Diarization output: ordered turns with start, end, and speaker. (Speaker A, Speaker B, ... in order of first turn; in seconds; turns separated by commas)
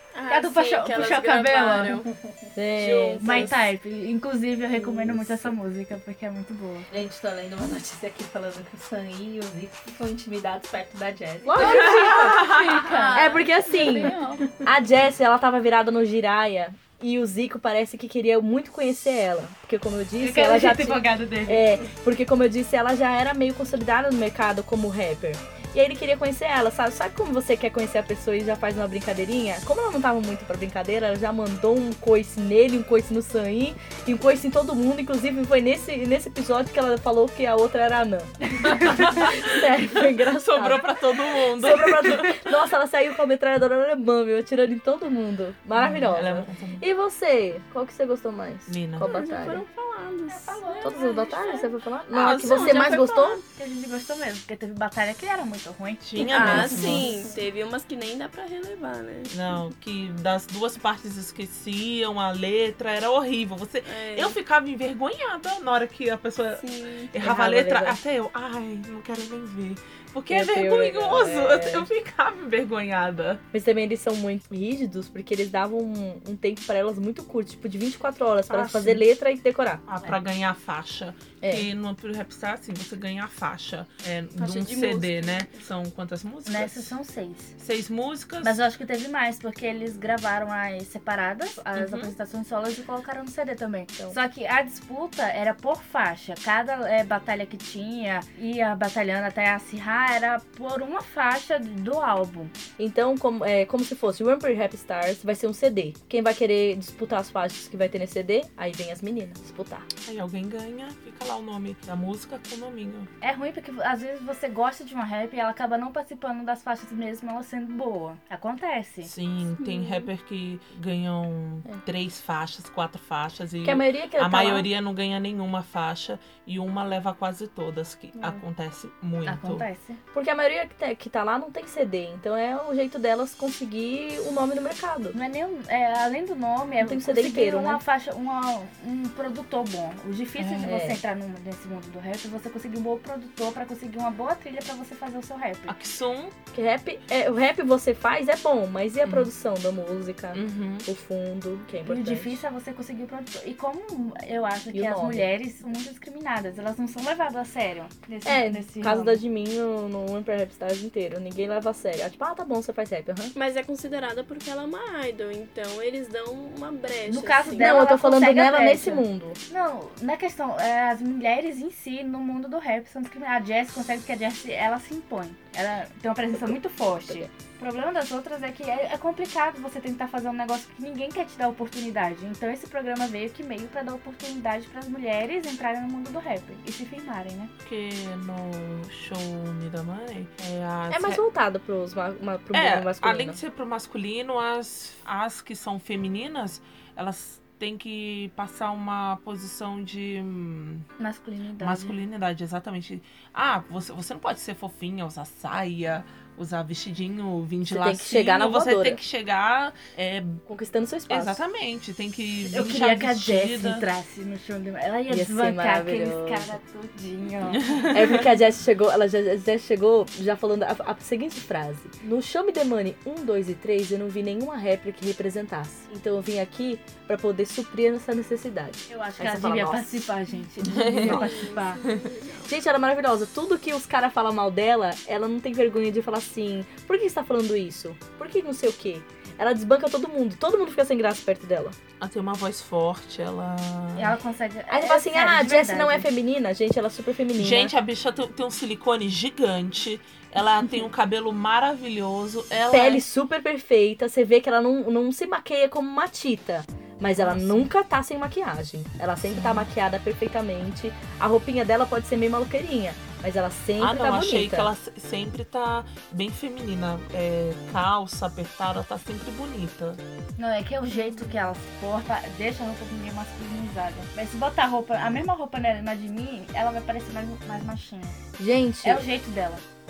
Speaker A: 0.1-2.1, Speaker B: 0.3-1.9, Speaker C: 2.1-2.5, Speaker D: 2.5-3.6, Speaker A: 2.7-3.7, Speaker B: 3.2-6.9, Speaker D: 4.8-5.5, Speaker C: 6.9-14.6, Speaker D: 11.4-12.2, Speaker B: 11.5-14.5, Speaker E: 11.7-12.9, Speaker D: 13.1-40.9, Speaker B: 20.2-21.7, Speaker E: 38.7-42.5, Speaker D: 41.5-49.6, Speaker E: 45.7-46.8, Speaker E: 48.7-49.1, Speaker A: 49.0-53.4, Speaker B: 50.3-51.6, Speaker D: 50.8-53.4, Speaker E: 52.1-52.9, Speaker B: 53.5-57.0, Speaker E: 56.0-57.1, Speaker A: 56.1-59.3, Speaker E: 59.3-73.4, Speaker A: 63.9-64.3, Speaker A: 66.6-67.1, Speaker D: 67.2-68.0, Speaker D: 70.3-71.9, Speaker D: 73.5-79.8, Speaker E: 78.5-79.0, Speaker E: 79.9-86.9, Speaker D: 81.4-81.7, Speaker A: 84.4-85.6, Speaker B: 86.5-87.5, Speaker E: 87.6-88.6, Speaker B: 88.4-102.5, Speaker E: 91.8-92.1, Speaker D: 102.8-109.9, Speaker E: 110.0-113.1, Speaker B: 113.2-119.1, Speaker E: 119.0-129.7, Speaker A: 119.6-120.1, Speaker D: 123.6-124.7, Speaker B: 128.2-128.4, Speaker B: 129.2-130.0, Speaker D: 130.1-135.2, Speaker B: 135.1-145.7, Speaker D: 136.8-137.8, Speaker D: 140.4-141.0, Speaker E: 145.7-146.3, Speaker D: 146.5-152.4, Speaker E: 149.0-149.3, Speaker E: 150.3-150.9, Speaker B: 151.8-159.2, Speaker D: 154.7-155.3, Speaker D: 158.2-163.3, Speaker A: 163.3-167.8, Speaker B: 167.1-187.5, Speaker D: 167.5-169.4, Speaker E: 187.6-191.2, Speaker D: 190.9-193.4, Speaker E: 192.5-200.9, Speaker B: 201.0-201.9, Speaker E: 201.6-210.4, Speaker D: 207.6-209.0, Speaker D: 210.4-211.4, Speaker E: 211.1-213.8, Speaker B: 212.4-217.9, Speaker D: 215.1-216.6, Speaker E: 217.6-218.1, Speaker D: 217.8-230.1, Speaker B: 228.9-231.9, Speaker E: 230.6-232.5, Speaker D: 231.0-231.3, Speaker A: 231.4-232.3, Speaker D: 232.4-241.8, Speaker E: 242.0-244.2, Speaker B: 243.9-246.1, Speaker D: 244.7-247.7, Speaker E: 247.3-253.0, Speaker D: 252.7-264.7, Speaker E: 257.1-257.7, Speaker E: 259.3-259.7, Speaker E: 263.8-270.0, Speaker B: 270.4-278.2, Speaker D: 278.4-279.1, Speaker B: 278.8-279.6